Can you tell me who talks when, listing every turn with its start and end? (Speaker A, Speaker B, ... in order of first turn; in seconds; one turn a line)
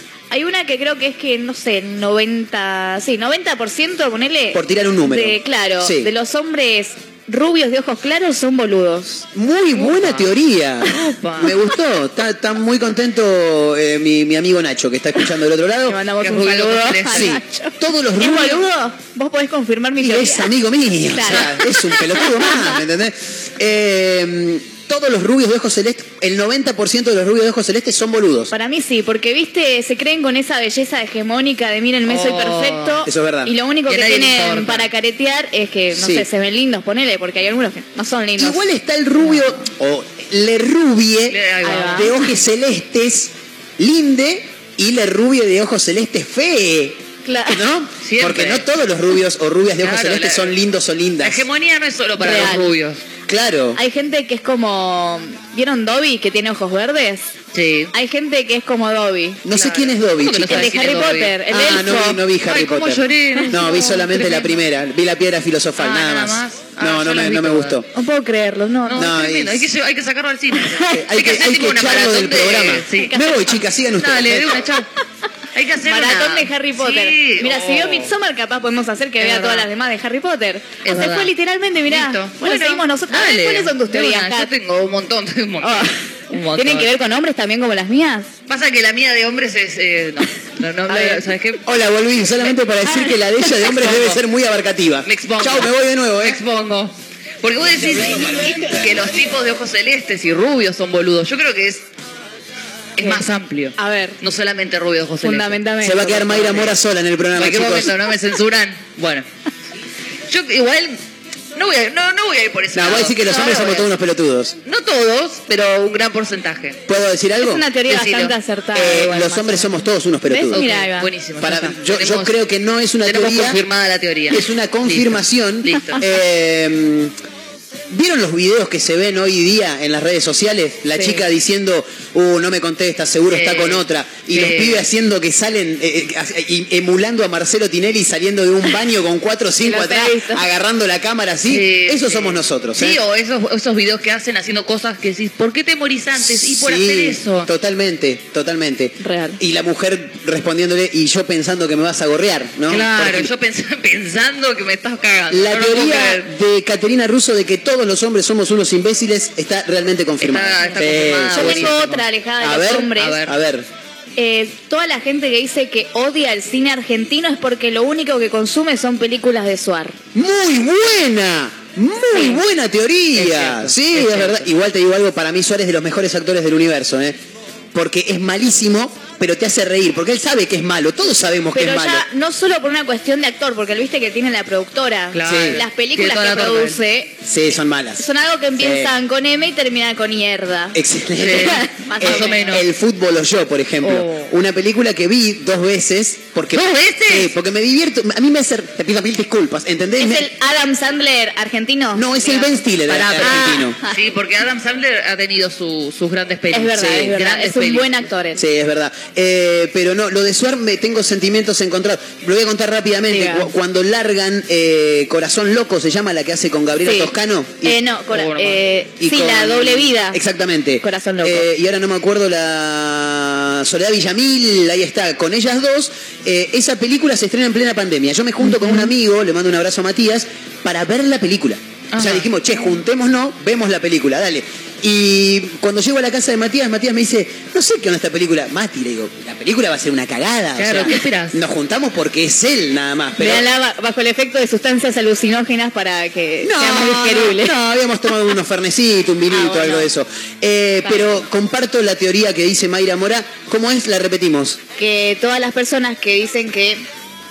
Speaker A: 0.3-9.3
Speaker B: 4.5-6.1
Speaker B: 9.3-16.0
Speaker C: 9.8-10.3
Speaker C: 10.8-11.6
Speaker A: 15.9-20.5
Speaker C: 16.2-17.4
Speaker B: 17.1-18.6
Speaker B: 20.0-28.5
Speaker A: 21.1-22.7
Speaker A: 28.5-38.6
Speaker C: 32.1-33.0
Speaker B: 33.1-33.5
Speaker C: 33.9-34.9
Speaker B: 36.0-36.3
Speaker B: 38.4-41.4
Speaker C: 41.3-42.1
Speaker A: 41.6-42.3
Speaker B: 41.9-51.4
Speaker A: 47.2-47.6
Speaker C: 48.0-48.7
Speaker C: 49.8-50.5
Speaker C: 51.2-53.0
Speaker A: 52.2-52.7
Speaker B: 53.3-53.8
Speaker A: 53.8-57.3
Speaker C: 57.5-57.9
Speaker A: 57.9-59.4
Speaker B: 59.5-60.7
Speaker C: 59.5-61.4
Speaker A: 60.5-62.2
Speaker B: 61.5-67.9
Speaker C: 62.5-64.6
Speaker C: 65.8-67.8
Speaker A: 67.9-69.1
Speaker C: 68.9-74.9
Speaker B: 69.0-69.7
Speaker B: 70.9-74.6
Speaker A: 72.9-73.6
Speaker C: 75.5-78.1
Speaker A: 75.8-84.5
Speaker C: 79.2-79.7
Speaker C: 80.8-81.3
Speaker C: 81.9-86.9
Speaker A: 85.6-86.0
Speaker A: 86.5-88.3
Speaker C: 88.5-91.6
Speaker A: 90.9-91.3
Speaker B: 91.7-96.4
Speaker A: 92.9-93.2
Speaker C: 93.5-94.2
Speaker C: 95.0-101.8
Speaker C: 103.0-105.6
Speaker A: 103.8-104.2
Speaker A: 105.2-106.7
Speaker B: 105.8-107.9
Speaker C: 106.3-106.7
Speaker C: 107.4-109.3
Speaker C: 110.3-111.0
Speaker C: 111.5-113.8
Speaker B: 112.8-114.6
Speaker A: 113.2-113.9
Speaker C: 114.6-116.8
Speaker B: 116.9-117.6
Speaker A: 117.4-121.1
Speaker C: 117.9-119.3
Speaker B: 118.7-120.6
Speaker C: 120.5-122.4
Speaker B: 121.4-123.6
Speaker C: 123.0-126.0
Speaker B: 124.3-127.1
Speaker B: 127.9-143.0
Speaker A: 131.0-131.2
Speaker C: 133.3-134.9
Speaker A: 139.7-140.4
Speaker C: 141.4-147.5
Speaker B: 146.2-153.3
Speaker A: 149.0-149.4
Speaker C: 152.7-156.3
Speaker B: 155.3-161.7
Speaker C: 160.2-162.0
Speaker A: 161.3-163.2
Speaker B: 162.4-163.7
Speaker C: 162.8-163.4
Speaker A: 164.2-170.0
Speaker B: 170.2-177.2
Speaker A: 172.1-172.4
Speaker C: 173.2-174.5
Speaker B: 177.7-182.1
Speaker A: 181.5-187.2
Speaker C: 185.1-186.8
Speaker B: 185.2-185.6
Speaker B: 187.3-188.0
Speaker A: 188.0-192.6
Speaker B: 188.6-188.9
Speaker B: 190.7-200.3
Speaker C: 191.2-192.7
Speaker C: 196.5-197.3
Speaker A: 200.0-202.7
Speaker B: 202.0-203.8
Speaker C: 202.9-208.0
Speaker A: 203.2-204.0
Speaker A: 206.5-208.4
Speaker B: 208.3-217.8
Speaker A: 213.1-213.5
Speaker A: 216.8-220.2
Speaker C: 218.1-218.6
Speaker B: 219.0-243.4
Speaker A: 220.8-221.5
Speaker C: 228.5-228.8
Speaker C: 231.9-232.3
Speaker C: 240.6-241.4
Speaker A: 243.2-247.6
Speaker B: 246.4-254.6
Speaker A: 249.3-249.9
Speaker A: 250.8-251.2
Speaker A: 254.8-256.8